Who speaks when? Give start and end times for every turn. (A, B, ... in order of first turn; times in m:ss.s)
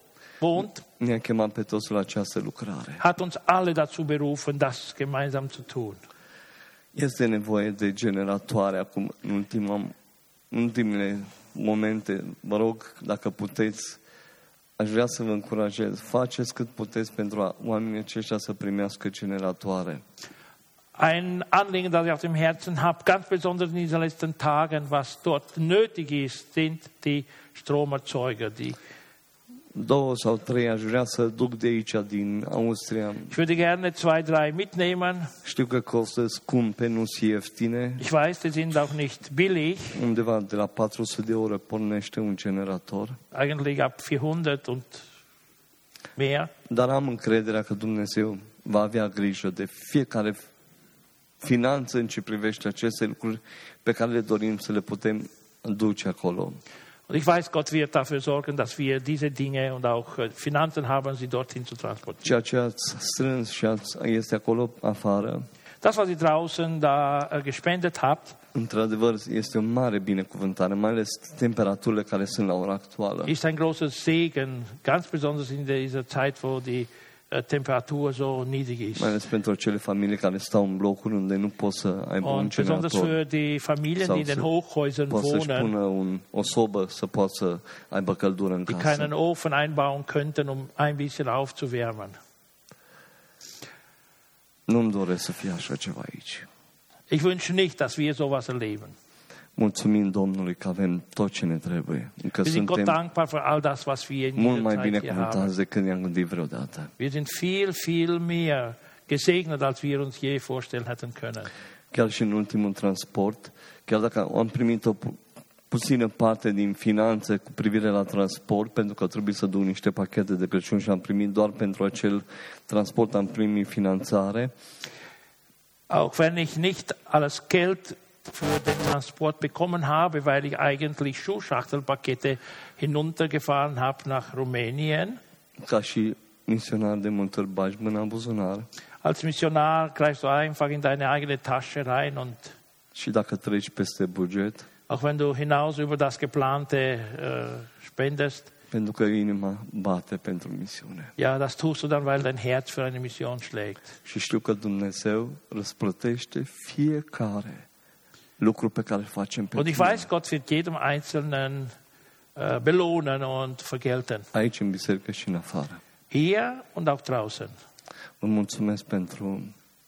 0:00.4-0:00.8 A
0:00.9-0:03.0 B
0:03.0-0:06.0 A
0:06.9-0:09.9 B
0:10.5-0:14.0 B
0:14.8-0:20.0 B
0:21.0-0:28.8 A
0:29.8-0:33.3 B
0:33.3-0:35.3 A
0:35.4-0:38.0 B
0:38.0-0:40.0 A
0:39.9-0:43.2 B
0:43.3-0:45.1 A
0:46.2-0:46.5 A
0:46.7-0:50.4 B
0:51.4-0:56.6 B
0:57.1-1:02.3 A
1:02.2-1:05.5 B
1:05.8-1:08.4 A
1:08.5-1:13.3 B
1:13.3-1:19.2 A
1:19.0-1:23.2 B
1:22.2-1:25.7 A
1:24.0-1:24.5 B
1:25.1-1:29.1 B
1:28.7-1:32.2 A
1:34.7-1:36.5 B
1:37.1-1:39.0 A
1:39.6-1:43.0 B
1:42.4-1:45.5 A
1:44.4-1:46.9 B
1:47.0-1:51.5 A
1:51.9-2:04.5 B
2:05.9-2:15.2 A
2:15.6-2:18.7 B
2:19.0-2:22.5 A
2:23.0-2:24.7 B
2:24.9-2:28.5 A
2:28.7-2:31.1 B
2:31.2-2:33.9 A
2:34.0-2:37.7 B
2:38.4-2:40.1 B
2:39.6-2:41.7 A
2:42.4-2:44.3 A
2:44.3-2:45.8 B
2:46.1-2:47.5 A
2:48.2-2:49.6 B